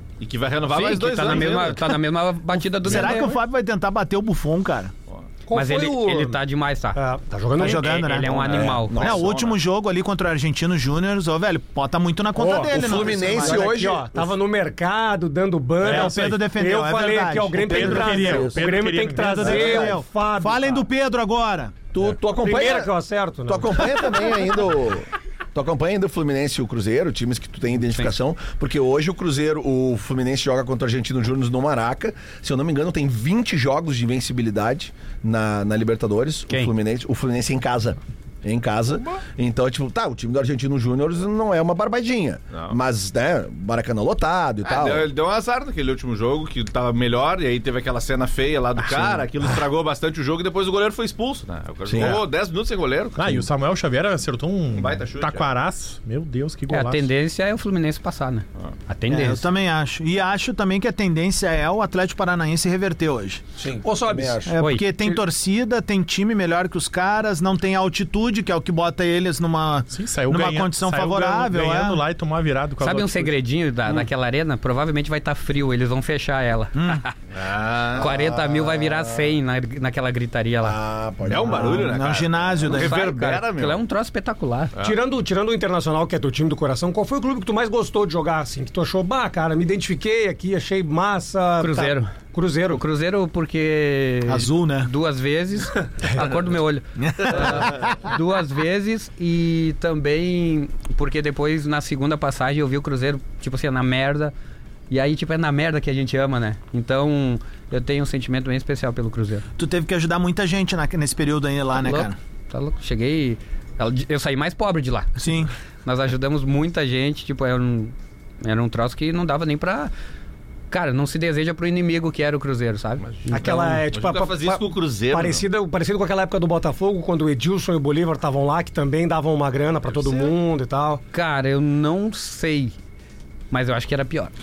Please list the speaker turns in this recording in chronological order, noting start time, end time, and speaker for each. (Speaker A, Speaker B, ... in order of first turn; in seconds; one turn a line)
Speaker A: 0.2-2.0
Speaker B: 0.7-3.4
Speaker C: 2.8-4.9
Speaker D: 5.5-6.4
Speaker B: 5.5-7.0
Speaker D: 7.0-8.2
Speaker C: 7.6-13.8
Speaker B: 7.6-9.2
Speaker A: 8.2-9.6
Speaker E: 8.4-9.3
Speaker D: 12.4-20.9
Speaker E: 12.7-14.1
Speaker F: 15.8-16.5
Speaker C: 15.8-18.5
Speaker F: 17.6-19.5
Speaker E: 18.0-18.6
Speaker C: 19.1-21.8
Speaker E: 19.4-20.0
Speaker E: 21.9-22.9
Speaker D: 22.3-24.2
Speaker E: 23.5-45.1
Speaker B: 27.8-28.1
Speaker A: 42.5-42.8
Speaker A: 44.6-53.5
Speaker E: 51.9-52.2
Speaker F: 52.0-52.2
Speaker F: 53.2-57.1
Speaker A: 54.7-55.5
Speaker B: 56.7-59.5
Speaker C: 59.1-63.4
Speaker E: 63.6-64.6
Speaker D: 63.8-64.5
Speaker C: 64.5-72.0
Speaker B: 64.6-64.9
Speaker F: 69.9-73.4
Speaker B: 72.8-77.1
Speaker C: 76.8-77.0
Speaker A: 77.3-78.1
Speaker B: 78.0-80.8
Speaker E: 78.0-79.3
Speaker E: 80.6-81.9
Speaker A: 81.2-83.8
Speaker C: 81.4-83.1
Speaker B: 82.7-84.7
Speaker D: 84.8-92.8
Speaker B: 91.6-92.2
Speaker B: 92.7-104.3
Speaker C: 94.3-94.9
Speaker C: 97.0-98.1
Speaker B: 104.9-109.5
Speaker C: 109.6-112.2
Speaker B: 111.8-115.3
Speaker C: 115.2-115.5
Speaker B: 115.8-119.9
Speaker B: 120.7-123.8
Speaker A: 123.0-125.5
Speaker D: 123.3-131.0
Speaker A: 130.0-130.3
Speaker B: 131.1-132.7
Speaker B: 133.5-134.3